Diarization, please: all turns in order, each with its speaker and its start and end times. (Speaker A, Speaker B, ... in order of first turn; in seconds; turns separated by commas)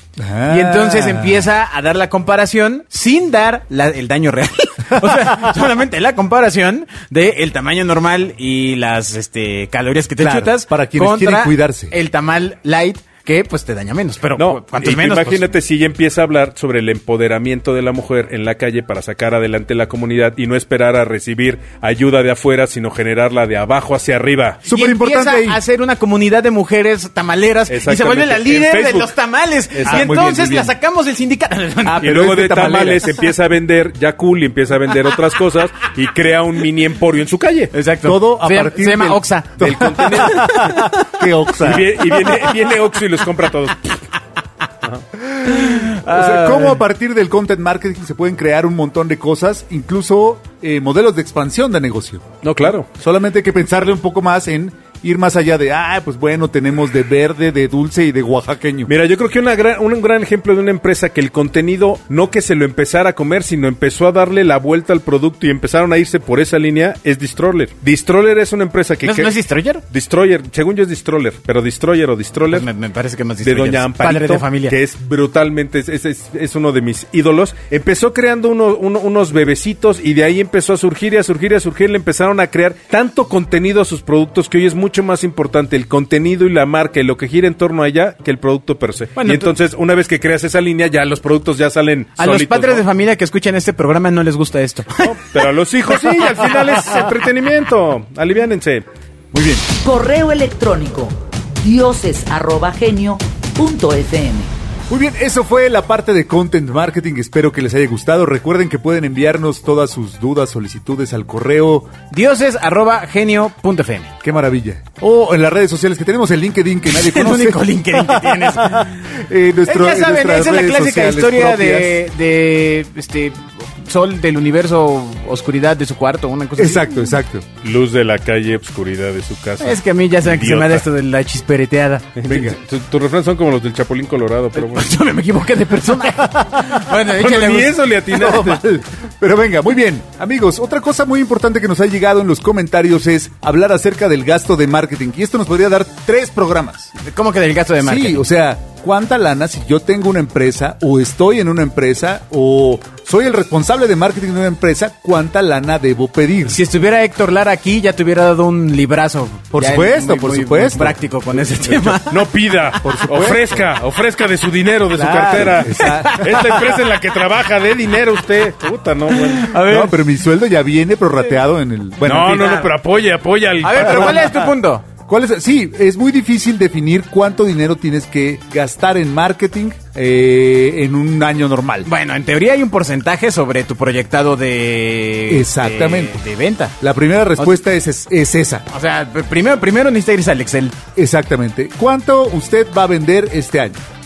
Speaker A: 0.2-1.5, Speaker B: 0.5-15.5, Speaker A: 5.0-5.3, Speaker A: 10.2-11.9, Speaker C: 14.3-24.6, Speaker A: 24.6-25.6, Speaker B: 24.6-32.1, Speaker C: 27.7-29.1, Speaker C: 29.7-30.2, Speaker A: 29.9-30.7, Speaker A: 31.8-33.1, Speaker C: 32.0-37.7, Speaker B: 37.7-41.0, Speaker A: 38.0-42.0, Speaker C: 39.6-40.8, Speaker C: 41.6-44.0, Speaker A: 45.3-58.9, Speaker B: 45.5-46.8, Speaker C: 52.4-52.9, Speaker C: 58.9-69.3, Speaker B: 69.0-69.8, Speaker C: 69.9-72.7, Speaker B: 72.5-74.8, Speaker C: 73.4-92.8, Speaker B: 89.2-89.5, Speaker B: 92.2-95.2, Speaker C: 95.0-98.8, Speaker B: 95.9-96.7, Speaker A: 99.3-99.6, Speaker D: 99.7-104.5, Speaker A: 104.9-111.9, Speaker B: 112.1-114.1, Speaker A: 114.2-122.0, Speaker B: 116.9-119.0, Speaker B: 119.6-127.0, Speaker A: 126.5-127.5, Speaker C: 127.6-130.8, Speaker B: 129.6-132.2, Speaker C: 132.2-135.0, Speaker A: 132.3-132.6, Speaker B: 134.6-137.8, Speaker C: 136.9-138.6, Speaker A: 138.1-146.9, Speaker B: 147.0-148.2, Speaker A: 147.8-156.6, Speaker B: 156.5-162.3, Speaker A: 159.5-161.9, Speaker C: 162.1-169.5, Speaker A: 162.8-163.7, Speaker A: 164.9-166.6, Speaker B: 165.7-166.6, Speaker B: 169.1-170.0, Speaker A: 169.6-172.6, Speaker C: 172.0-174.5, Speaker B: 172.3-172.7, Speaker B: 173.6-174.8, Speaker A: 175.1-181.9, Speaker B: 181.8-186.7, Speaker A: 185.3-186.2, Speaker A: 186.8-188.6, Speaker B: 188.7-190.8, Speaker A: 190.9-193.8